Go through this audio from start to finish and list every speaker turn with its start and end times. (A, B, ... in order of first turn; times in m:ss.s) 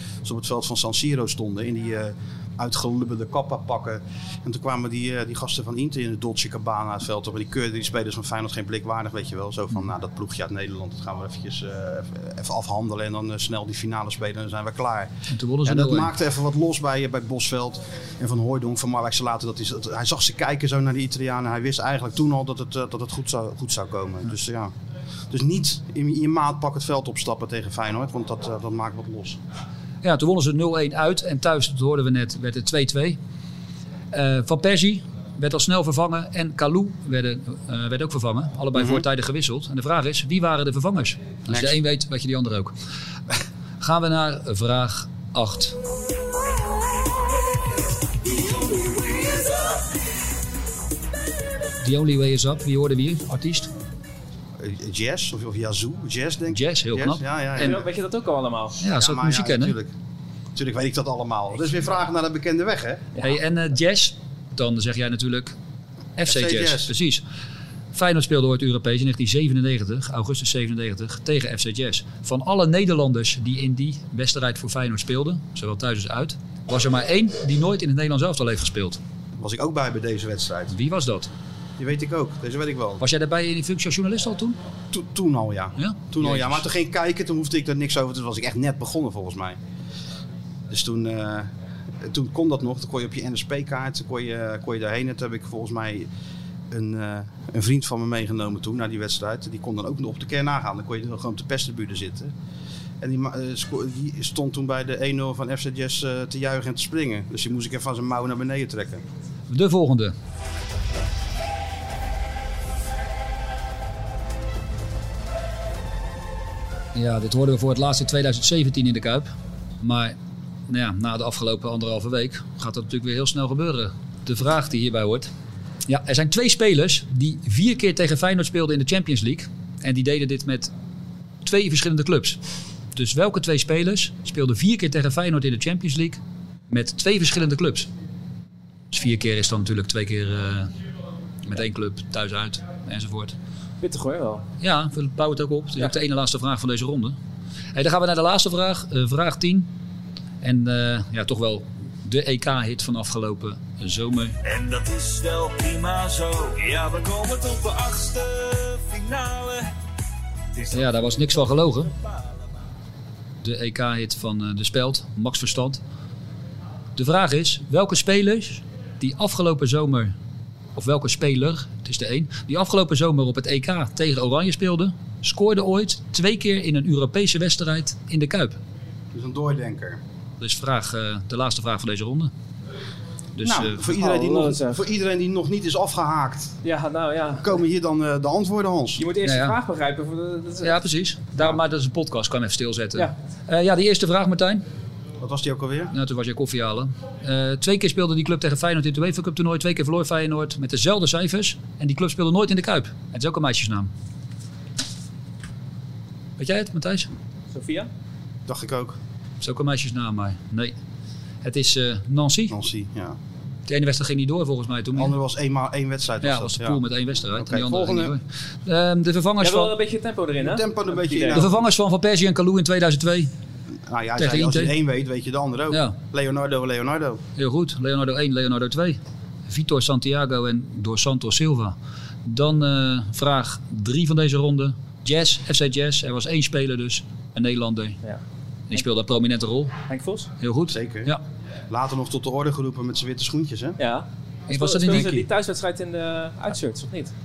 0:00.2-0:15.1 A
0:15.3-0:16.1 B
0:15.6-0:24.7 A
0:25.3-0:29.4 A
0:30.0-0:33.2 B
0:34.1-0:42.7 B
0:38.8-0:39.0 A
0:41.5-0:41.8 A
0:43.8-0:45.8 B
0:51.8-0:53.7 B
0:54.6-0:57.8 A
0:56.5-0:57.8 B
0:57.6-0:58.8 C
0:58.8-0:59.8 B
0:58.9-0:59.9 A
1:00.6-1:03.1 A
1:03.2-1:05.6 B
1:06.2-1:07.2 B
1:06.3-1:06.9 A
1:07.9-1:19.0 B
1:19.4-1:20.7 A
1:20.7-1:21.3 B
1:21.8-1:23.0 A
1:23.0-1:24.6 B
1:24.9-1:29.6 A
1:25.8-1:26.6 B
1:30.7-1:31.5 A
1:32.0-1:36.1 A
1:36.7-1:42.3 A
1:43.0-1:49.0 A
1:49.5-1:50.2 B
1:57.0-2:00.2 B
2:00.7-2:05.3 B
2:05.9-2:10.7 B
2:11.4-2:12.4 B
2:13.0-2:16.2 B
2:16.7-2:17.9 B
2:18.9-2:20.7 B
2:21.4-2:23.4 B
2:23.8-2:24.4 C
2:24.6-2:27.2 B
2:27.8-2:29.7 B
2:30.4-2:34.4 B
2:34.4-2:39.6 D
2:40.7-2:41.9 B
2:43.4-2:45.8 B
2:47.0-2:50.1 B
2:50.8-2:58.6 B
2:59.1-3:00.0 A
3:00.4-3:02.3 B
3:03.4-3:03.9 B
3:03.4-3:06.6 A
3:03.9-3:04.8 C
3:06.6-3:07.5 C
3:07.4-3:09.0 A
3:09.0-3:10.8 C
3:09.2-3:09.6 B
3:10.6-3:14.6 B
3:15.2-3:15.9 A
3:15.9-3:23.9 B
3:26.4-3:27.1 B
3:27.5-3:27.9 C
3:28.5-3:29.0 A
3:29.4-3:30.7 B
3:31.4-3:32.6 B
3:32.5-3:33.2 A
3:33.7-3:35.2 B
3:35.0-3:36.8 A
3:36.2-3:39.7 B
3:37.4-3:38.1 A
3:39.4-3:41.5 C
3:40.4-3:41.6 A
3:41.3-3:43.3 B
3:43.9-3:47.2 A
3:44.2-3:44.7 B
3:47.4-3:58.0 B
3:58.7-3:59.7 B
3:59.9-4:00.3 C
4:00.4-4:01.2 B
4:00.7-4:01.1 A
4:01.7-4:03.8 A
4:03.8-4:07.1 C
4:04.5-4:05.3 B